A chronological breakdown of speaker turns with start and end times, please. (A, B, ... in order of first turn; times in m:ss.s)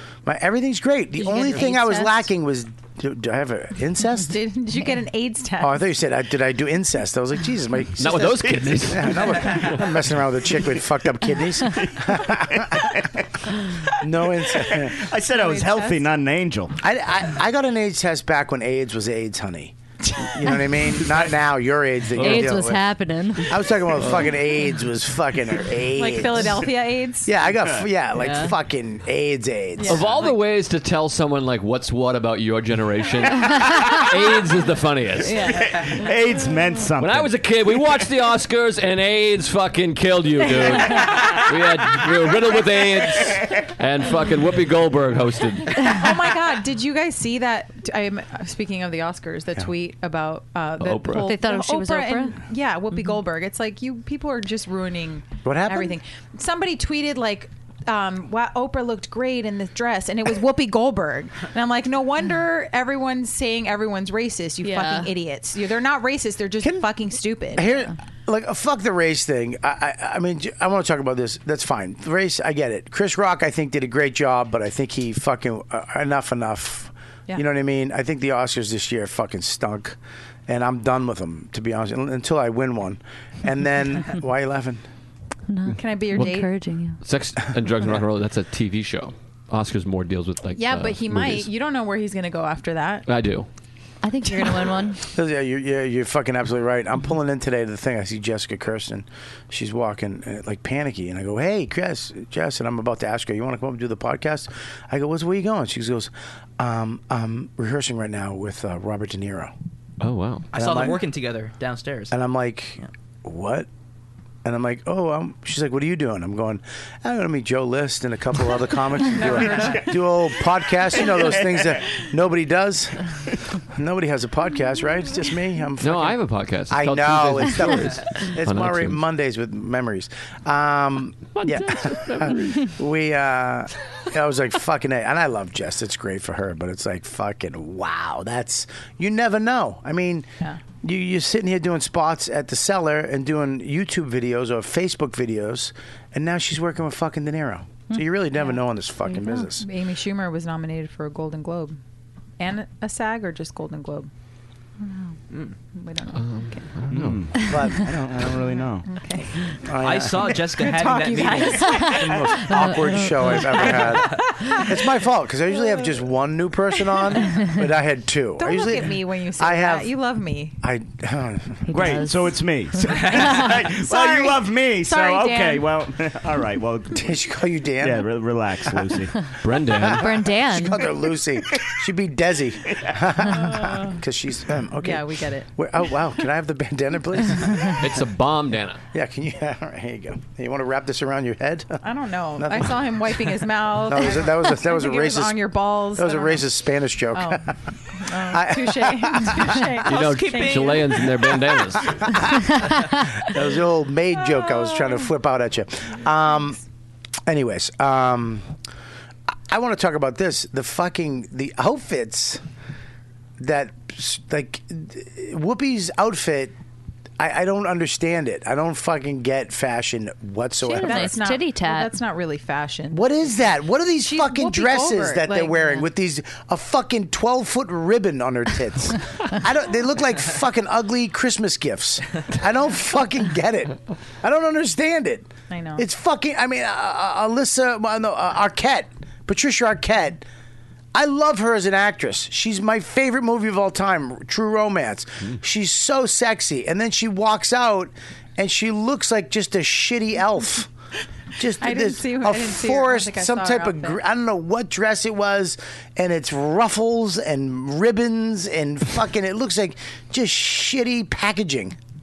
0:00.2-0:04.4 A
0:01.2-0:02.2 B
0:04.3-0:05.8 B
0:05.6-0:12.9 A
0:08.0-0:09.8 C
0:08.2-0:09.7 D
0:11.6-0:16.8 D
0:14.0-0:15.0 A
0:15.3-0:16.1 B
0:16.8-0:22.9 A
0:22.2-0:23.7 E
0:22.2-0:22.6 C
0:23.5-0:26.6 A
0:26.0-0:27.3 B
0:27.2-0:30.1 A
0:28.2-0:28.5 E
0:29.8-0:30.4 B
0:29.9-0:35.7 C
0:35.2-0:35.8 B
0:35.4-0:37.3 D
0:37.0-0:46.0 C
0:45.8-1:07.9 B
0:50.8-0:51.3 C
0:51.2-0:52.4 E
0:55.4-0:56.0 A
1:04.6-1:05.1 E
1:07.6-1:24.8 A
1:25.5-1:27.0 E
1:25.7-1:26.5 B
1:27.0-1:31.5 C
1:30.6-1:33.0 B
1:33.1-1:33.5 C
1:34.0-1:35.0 E
1:34.3-1:34.6 B
1:35.1-1:49.5 A
1:50.0-1:50.5 C
1:50.5-1:52.2 F
1:50.5-1:51.1 A
1:52.1-1:53.7 A
1:54.4-2:03.2 A
1:59.2-2:00.2 D
2:00.9-2:01.9 D
2:03.7-2:06.2 A
2:05.8-2:09.0 C
2:06.7-2:20.3 A
2:11.4-2:12.6 C
2:20.8-2:29.6 A
2:29.1-2:31.8 B
2:32.4-2:34.1 B
2:35.7-2:36.7 B
2:36.2-2:37.2 C
2:36.9-2:38.9 D
2:37.4-2:38.3 A
2:38.8-2:39.3 B
2:39.6-2:40.4 A
2:39.8-2:41.8 F
2:40.6-2:42.0 B
2:41.6-2:43.9 E
2:41.8-2:49.9 A
2:43.6-2:44.9 B
2:46.9-2:47.3 B
2:48.4-2:50.6 B
2:50.6-2:51.8 A
2:51.7-2:52.4 E
2:51.7-2:57.1 D
2:53.2-2:53.4 E
2:53.9-2:54.3 B
2:54.8-2:55.7 B
2:57.0-2:58.1 A
2:57.8-2:59.2 D
2:59.4-3:00.1 C
2:59.8-3:07.8 A
2:59.9-3:00.9 E
3:02.7-3:03.0 D
3:03.3-3:04.0 B
3:04.8-3:05.5 B
3:07.7-3:08.8 C
3:08.9-3:11.8 A
3:11.8-3:16.4 B
3:12.4-3:13.3 A
3:13.8-3:15.4 A
3:16.0-3:17.5 A
3:17.1-3:21.0 B
3:18.2-3:19.6 A
3:19.9-3:22.0 C
3:19.9-3:21.4 F
3:21.8-3:26.6 A
3:22.6-3:23.1 E
3:27.3-3:28.5 A
3:29.5-3:32.4 A
3:33.4-3:36.6 A
3:37.2-3:41.1 A
3:40.7-3:41.9 E
3:40.7-3:43.0 B
3:42.9-4:00.2 A
3:44.0-3:45.9 B
3:55.5-3:55.8 B
4:00.9-4:10.7 A
4:11.4-4:21.8 A
4:11.6-4:14.0 B